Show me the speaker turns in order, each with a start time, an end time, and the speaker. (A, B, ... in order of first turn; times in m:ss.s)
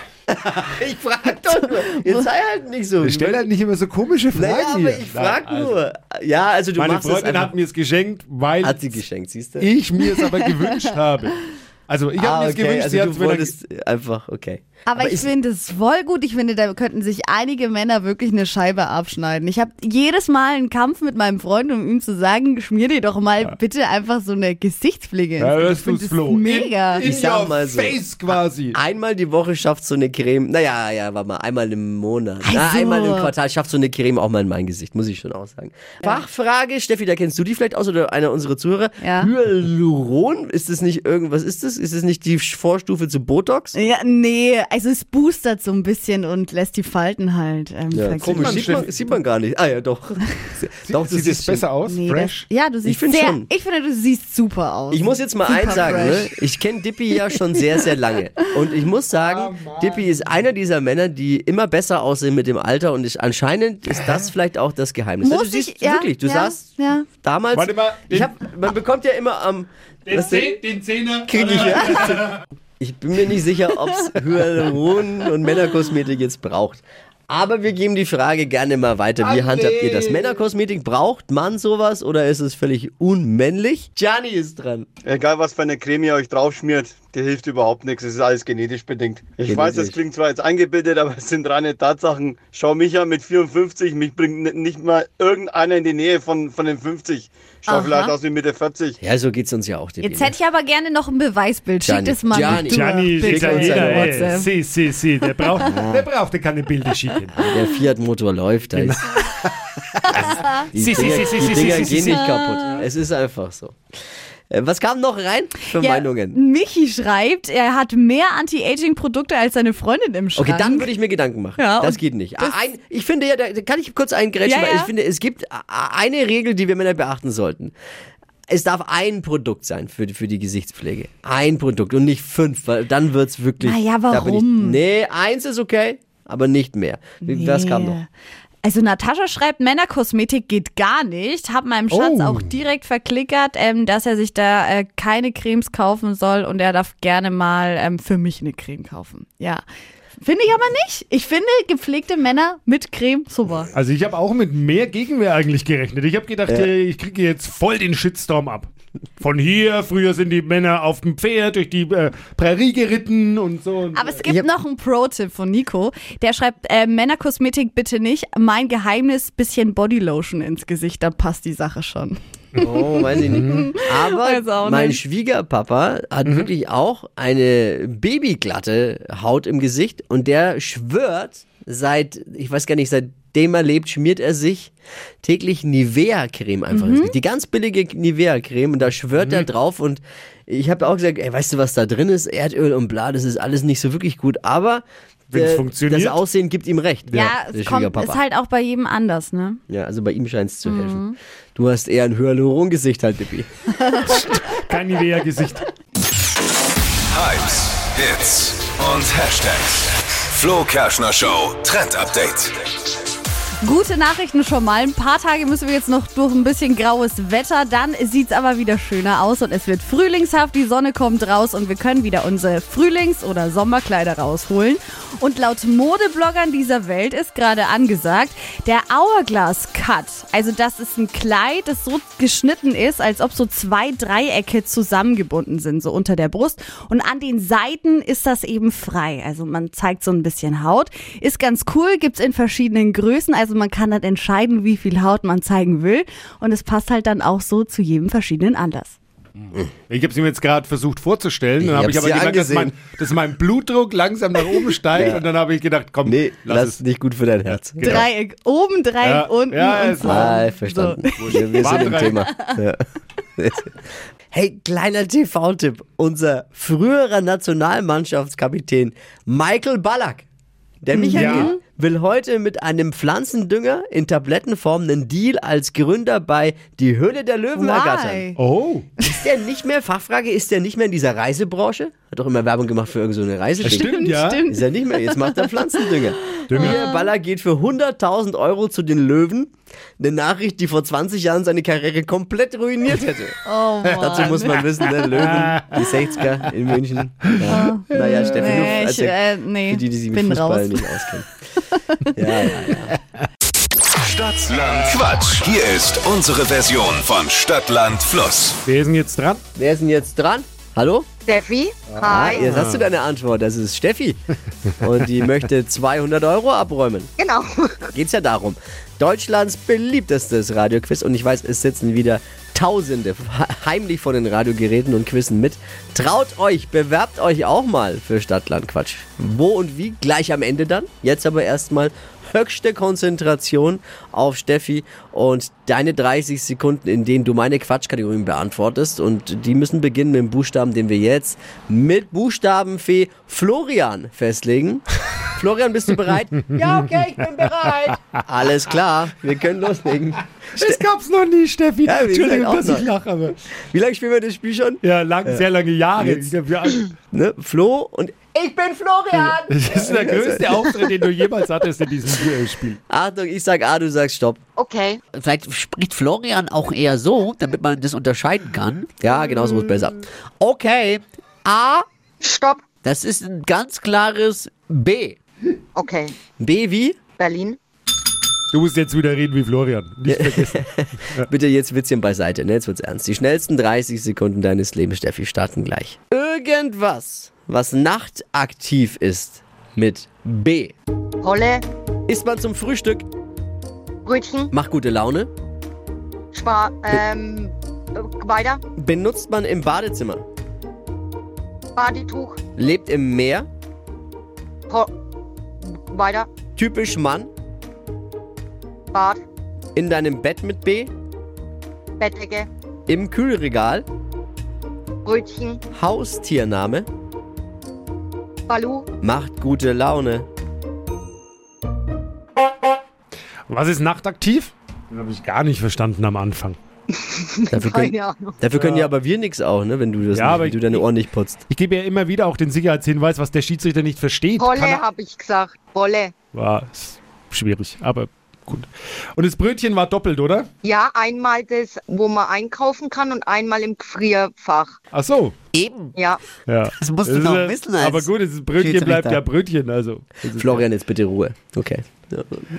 0:00.3-0:03.4 A
0:03.0-0:05.8 B
0:04.3-0:07.5 A
0:06.8-0:09.0 B
0:08.6-0:09.7 A
0:09.6-0:13.5 B
0:12.2-0:15.3 A
0:14.9-0:27.1 C
0:25.4-0:28.8 B
0:27.0-0:43.8 A
0:32.4-0:33.3 C
0:39.0-0:39.3 C
0:43.7-0:48.8 C
0:47.9-0:51.7 A
0:48.2-0:49.0 B
0:50.8-0:52.5 B
0:51.9-0:56.3 C
0:52.8-0:53.5 A
0:54.9-1:06.7 A
0:55.8-0:56.1 B
0:59.1-1:00.3 B
1:05.2-1:07.1 C
1:07.2-1:10.6 A
1:07.5-1:08.3 B
1:10.1-1:12.4 B
1:11.3-1:12.3 A
1:12.8-1:24.9 A
1:19.2-1:20.4 B
1:25.0-1:39.0 D
1:29.4-1:30.0 A
1:37.7-1:38.2 C
1:39.0-1:40.3 A
1:40.0-1:44.5 C
1:41.8-1:44.4 A
1:42.6-1:47.5 B
1:45.6-1:46.1 A
1:47.3-1:49.1 A
1:48.7-1:52.6 B
1:50.1-1:50.6 C
1:50.2-1:53.8 A
1:52.0-1:52.8 C
1:54.5-1:56.4 A
1:55.8-2:00.9 C
2:00.4-2:07.7 A
2:01.6-2:02.6 C
2:04.4-2:04.9 C
2:08.5-2:18.0 A
2:13.6-2:14.8 C
2:17.2-2:18.1 C
2:18.6-2:29.6 C
2:21.9-2:22.5 B
2:30.2-2:33.7 C
2:33.7-2:38.7 B
2:39.2-2:44.2 B
2:44.0-2:55.0 C
2:52.6-3:18.2 A
2:53.2-2:53.7 B
2:56.2-2:56.5 B
3:06.7-3:07.1 C
3:09.2-3:09.5 B
3:15.3-3:16.2 B
3:17.1-3:17.3 B
3:17.1-3:19.6 C
3:19.7-3:23.5 A
3:20.6-3:21.2 C
3:23.9-3:24.2 C
3:24.0-3:25.7 B
3:27.1-3:32.6 E
3:33.6-4:09.0 C
4:09.9-4:16.8 B
4:11.6-4:12.8 A
4:14.9-4:15.2 A
4:16.0-4:18.0 A
4:17.5-4:18.1 B
4:17.8-4:22.1 C
4:19.0-4:20.4 B
4:20.0-4:22.8 A
4:21.2-4:22.2 B
4:23.4-4:23.8 A
4:24.3-4:30.3 A
4:30.8-4:38.2 A
4:30.9-4:31.6 C
4:31.1-4:31.5 B
4:37.6-4:38.4 C
4:38.4-4:38.9 B
4:39.0-5:01.3 A
4:43.6-4:44.5 B
4:43.6-4:45.5 C
4:46.4-4:46.8 C
4:46.5-4:46.8 B
4:53.4-4:55.1 C
4:55.2-4:55.7 B
4:57.5-5:01.0 C
5:01.6-5:02.5 C
5:02.2-5:03.0 A
5:04.1-5:08.6 E
5:08.6-5:09.4 B
5:09.6-5:11.1 A
5:11.3-5:12.6 F
5:12.0-5:14.2 A
5:12.3-5:12.9 B
5:14.8-5:17.1 A
5:17.2-5:17.9 F
5:17.9-5:50.8 A
5:46.4-5:46.8 B
5:50.5-5:53.4 B
5:51.8-5:52.9 A
5:53.5-5:55.4 A
5:54.8-5:56.9 B
5:56.0-5:56.3 A
5:57.1-6:00.7 A
5:59.2-6:02.8 B
6:02.9-6:04.4 A
6:04.6-6:05.0 F
6:05.1-6:08.9 G
6:06.8-6:10.0 A
6:10.4-6:11.8 G
6:12.2-6:12.7 F
6:12.9-6:15.2 G
6:15.8-6:16.2 F
6:16.4-6:17.0 A
6:17.2-6:17.6 F
6:18.5-6:21.3 B
6:20.1-6:30.7 A
6:31.2-6:31.6 F
6:32.1-6:33.1 A
6:34.1-6:34.5 F
6:34.5-6:35.3 A
6:36.3-6:38.6 F
6:38.8-6:40.2 A
6:41.8-6:42.4 F
6:42.6-6:43.5 A
6:45.6-6:46.3 F
6:46.6-6:47.3 A
6:48.9-6:49.2 F
6:49.8-6:50.9 A
6:52.0-6:52.5 F
6:52.9-6:53.9 A
6:55.0-6:55.6 F
6:55.8-6:56.9 A
6:58.5-6:58.9 F
6:59.0-7:00.3 A
7:03.5-7:06.6 B
7:06.9-7:08.4 F
7:07.5-7:11.4 A
7:08.5-7:08.9 B
7:10.1-7:10.9 B
7:11.5-7:14.8 B
7:14.4-7:16.1 F
7:16.3-7:20.5 B
7:20.6-7:24.8 F
7:24.9-7:25.4 B
7:25.5-7:25.9 G
7:26.0-7:26.2 F
7:26.5-7:30.6 B
7:26.8-7:29.2 G
7:30.3-7:32.4 A